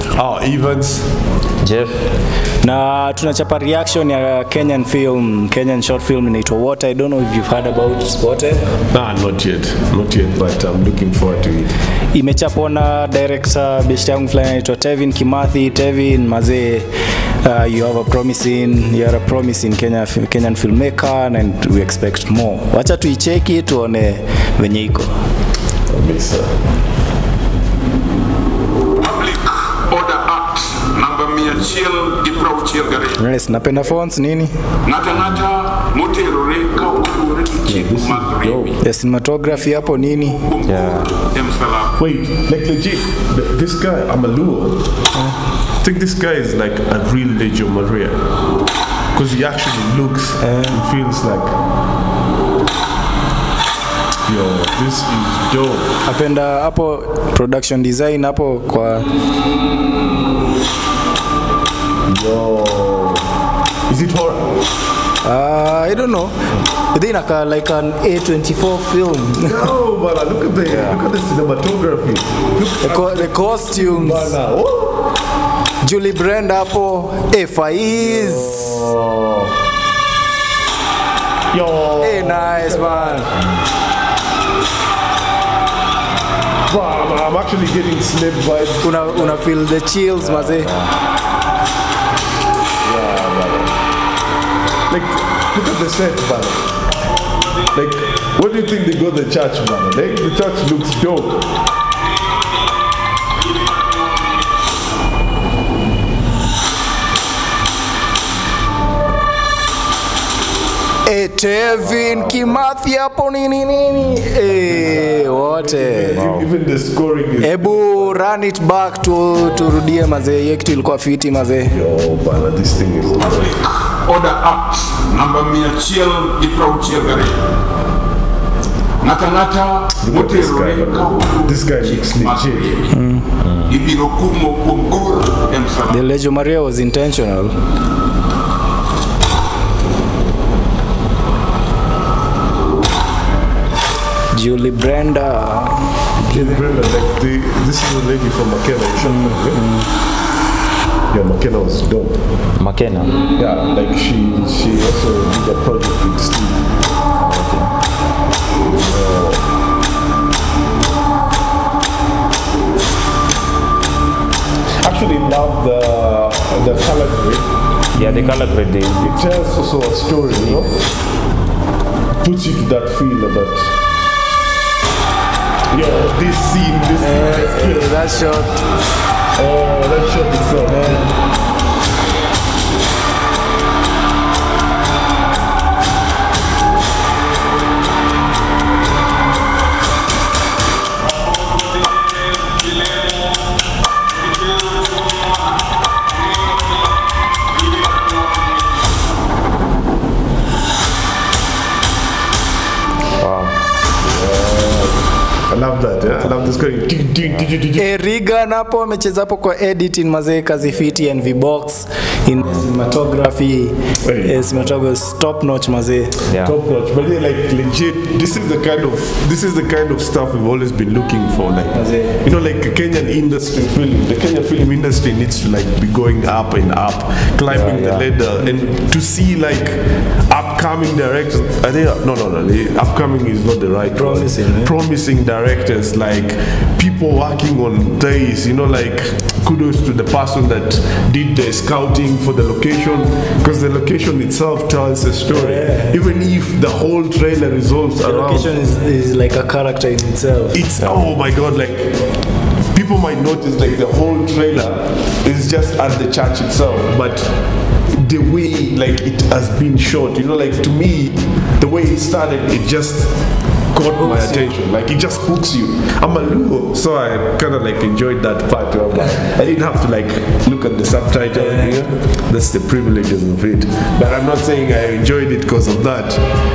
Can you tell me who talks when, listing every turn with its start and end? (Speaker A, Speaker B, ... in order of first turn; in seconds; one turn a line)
Speaker A: 0.1-1.1
Speaker B: 1.6-2.0
Speaker C: 2.6-8.7
Speaker A: 8.9-11.7
Speaker C: 12.1-16.9
Speaker C: 17.4-25.1
Speaker A: 25.9-26.5
Speaker D: 29.0-33.2
Speaker C: 33.2-34.5
Speaker D: 34.9-38.8
Speaker A: 37.7-38.7
Speaker C: 38.8-40.5
Speaker D: 40.4-41.9
Speaker B: 40.6-41.2
Speaker A: 42.0-44.9
Speaker A: 45.8-48.2
Speaker A: 49.1-51.5
Speaker C: 50.4-50.8
Speaker A: 54.3-55.9
Speaker C: 56.0-59.1
Speaker A: 62.1-63.3
Speaker A: 63.9-64.6
Speaker C: 65.2-69.7
Speaker A: 69.4-75.1
Speaker B: 70.7-71.0
Speaker C: 72.8-74.4
Speaker C: 75.8-78.9
Speaker A: 78.0-79.5
Speaker A: 81.5-83.6
Speaker C: 82.0-83.3
Speaker A: 86.7-89.4
Speaker C: 88.8-90.8
Speaker B: 90.2-90.9
Speaker A: 92.8-93.8
Speaker A: 94.9-96.8
Speaker A: 97.7-101.5
Speaker D: 103.5-104.5
Speaker C: 111.0-116.2
Speaker A: 112.1-112.5
Speaker A: 114.7-118.2
Speaker B: 116.2-116.5
Speaker C: 117.4-121.8
Speaker A: 121.7-123.6
Speaker D: 123.2-127.4
Speaker D: 129.0-132.9
Speaker A: 130.0-132.8
Speaker C: 132.9-133.3
Speaker B: 133.4-133.7
Speaker D: 133.7-136.0
Speaker C: 135.9-137.5
Speaker C: 144.3-146.5
Speaker A: 146.2-149.6
Speaker C: 149.0-149.9
Speaker A: 151.1-152.2
Speaker B: 152.6-153.1
Speaker A: 153.4-156.7
Speaker B: 157.2-157.7
Speaker A: 158.7-159.4
Speaker A: 164.8-167.5
Speaker B: 167.9-169.2
Speaker C: 168.0-168.3
Speaker A: 169.0-170.7
Speaker B: 170.4-170.7
Speaker A: 172.2-173.7
Speaker A: 175.7-178.4
Speaker C: 177.0-178.6
Speaker A: 179.4-181.1
Speaker C: 180.7-181.1
Speaker B: 203.2-203.6
Speaker A: 204.0-204.9
Speaker A: 205.5-207.9
Speaker C: 207.8-216.2
Speaker A: 214.0-214.7
Speaker B: 216.3-216.6
Speaker A: 216.3-248.5
Speaker C: 221.8-222.2
Speaker B: 227.5-228.1
Speaker C: 233.8-234.7
Speaker C: 245.3-246.0
Speaker C: 248.0-250.7
Speaker A: 250.5-252.0
Speaker A: 252.7-257.3
Speaker A: 257.9-263.2
Speaker A: 263.7-276.3
Speaker C: 264.0-264.5
Speaker C: 271.3-271.8